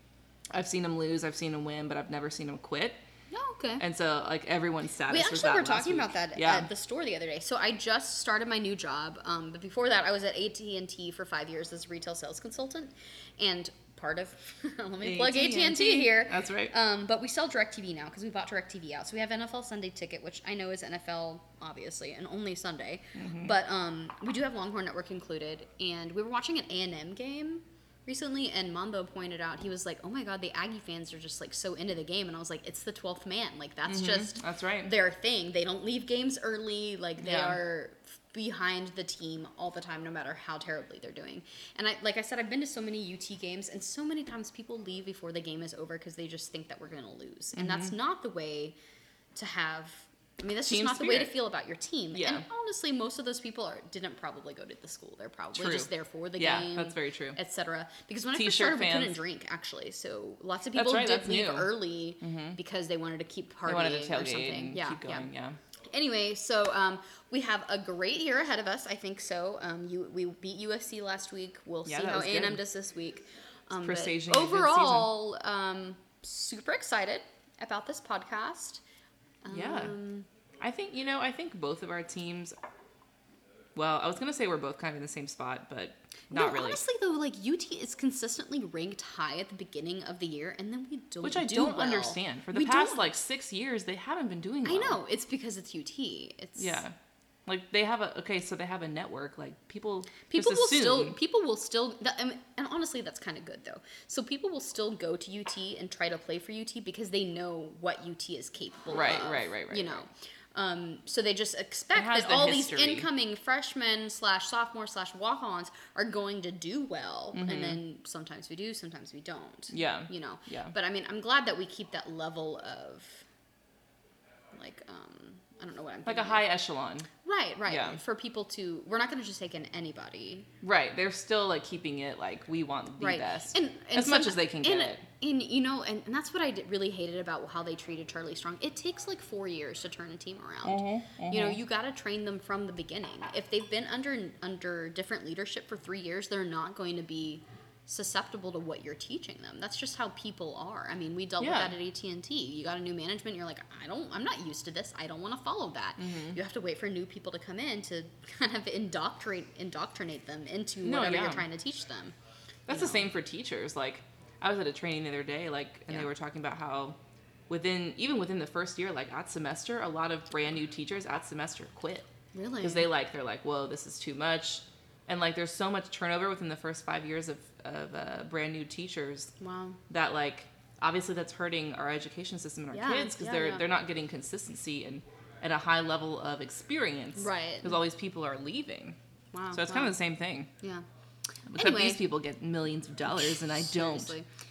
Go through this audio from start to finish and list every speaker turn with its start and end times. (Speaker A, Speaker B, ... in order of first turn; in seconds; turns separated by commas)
Speaker A: 0.5-3.0, Speaker B: 3.3-3.9, Speaker A: 3.8-6.7, Speaker B: 5.1-48.8, Speaker A: 15.0-16.7, Speaker A: 23.1-23.5, Speaker A: 33.9-34.9, Speaker A: 37.2-37.6, Speaker A: 47.6-47.9, Speaker B: 49.4-65.3, Speaker A: 50.6-51.4, Speaker A: 52.1-52.4, Speaker A: 55.5-57.4, Speaker A: 58.3-59.2, Speaker A: 60.7-62.6, Speaker A: 63.7-65.6, Speaker B: 65.9-78.8, Speaker A: 71.9-72.6, Speaker A: 73.8-75.2, Speaker B: 79.4-80.3, Speaker A: 79.5-80.0, Speaker A: 80.6-82.5, Speaker A: 83.8-86.8, Speaker B: 86.3-93.1, Speaker A: 91.2-95.0, Speaker B: 94.6-96.8, Speaker A: 96.6-96.9, Speaker A: 97.5-101.2, Speaker B: 100.3-123.2, Speaker A: 108.9-110.0, Speaker A: 111.9-113.1, Speaker A: 117.3-117.8, Speaker A: 119.7-120.7, Speaker B: 124.5-126.5, Speaker A: 126.0-127.1, Speaker B: 127.2-130.5, Speaker A: 127.7-128.0, Speaker A: 130.6-135.1, Speaker B: 133.0-162.1, Speaker A: 140.6-141.6, Speaker A: 151.4-151.8, Speaker A: 156.0-156.4, Speaker A: 160.8-161.5, Speaker A: 162.7-167.0, Speaker B: 162.7-163.0, Speaker A: 167.5-172.1, Speaker B: 172.3-172.9, Speaker A: 172.6-179.3, Speaker B: 179.4-179.8, Speaker A: 179.9-189.0, Speaker B: 182.7-183.7, Speaker B: 187.2-187.7, Speaker B: 189.3-190.0, Speaker A: 189.5-190.5, Speaker B: 190.6-190.8, Speaker A: 191.5-194.1, Speaker B: 191.5-192.1, Speaker B: 193.6-194.3